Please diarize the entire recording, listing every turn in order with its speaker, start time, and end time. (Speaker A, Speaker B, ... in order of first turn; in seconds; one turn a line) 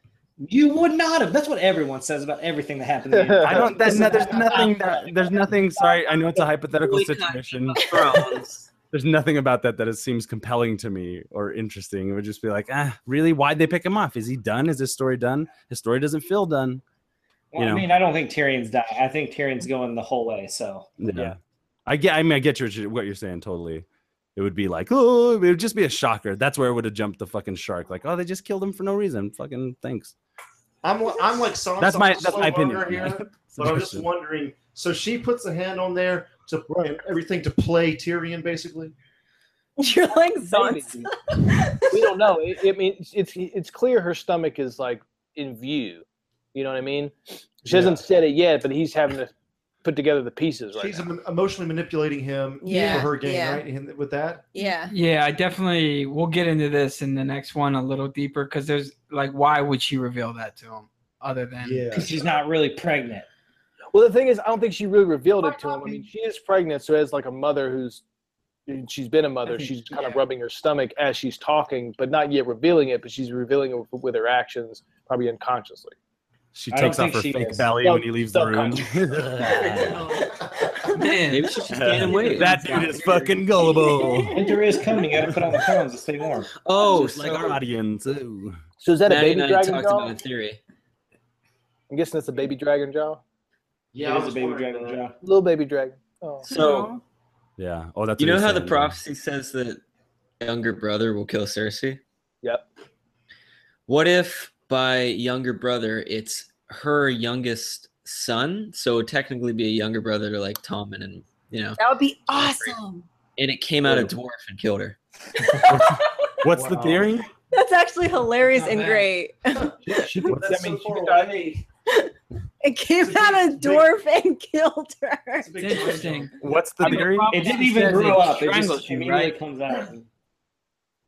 Speaker A: 0.4-5.3
Speaker B: 3.1-4.5
Speaker C: 3.4-7.8
Speaker D: 6.7-8.7
Speaker C: 8.9-16.8
Speaker A: 17.5-21.2
Speaker C: 17.6-17.9
Speaker C: 21.0-23.9
Speaker C: 24.4-30.1
Speaker E: 30.8-38.9
Speaker C: 31.8-34.1
Speaker F: 39.8-42.1
Speaker B: 40.4-41.1
Speaker B: 41.9-49.3
Speaker E: 47.7-48.0
Speaker B: 49.8-51.1
Speaker E: 50.8-54.5
Speaker F: 52.6-53.6
Speaker F: 54.5-54.9
Speaker G: 54.9-61.9
Speaker E: 61.6-62.3
Speaker A: 61.9-63.3
Speaker B: 63.9-68.0
Speaker E: 65.4-66.0
Speaker B: 68.7-76.0
Speaker G: 69.5-70.2
Speaker C: 76.5-80.0
Speaker A: 76.7-77.7
Speaker B: 77.8-79.2
Speaker F: 79.5-81.1
Speaker G: 80.9-82.7
Speaker D: 81.3-83.3
Speaker C: 81.7-84.4
Speaker F: 83.5-84.8
Speaker A: 84.3-86.5
Speaker C: 85.2-85.6
Speaker D: 86.6-87.6
Speaker C: 86.8-88.6
Speaker B: 88.8-90.1
Speaker D: 89.1-90.6
Speaker B: 91.9-93.2
Speaker E: 93.9-95.0
Speaker A: 94.0-95.2
Speaker B: 95.2-96.5
Speaker F: 96.4-97.0
Speaker D: 96.5-96.9
Speaker C: 97.6-99.0
Speaker D: 98.2-99.8
Speaker D: 100.4-102.0
Speaker D: 103.9-112.8
Speaker F: 111.8-113.1
Speaker D: 113.4-115.0
Speaker C: 113.8-114.1
Speaker C: 115.7-117.3
Speaker E: 116.5-117.1
Speaker F: 117.5-120.0
Speaker G: 118.5-119.1
Speaker B: 119.8-121.6
Speaker E: 120.2-121.6
Speaker C: 120.3-120.6
Speaker F: 122.6-126.0
Speaker E: 123.0-123.9
Speaker E: 125.4-126.3
Speaker G: 125.6-129.4
Speaker C: 126.4-127.4
Speaker A: 127.3-130.1
Speaker B: 127.5-128.1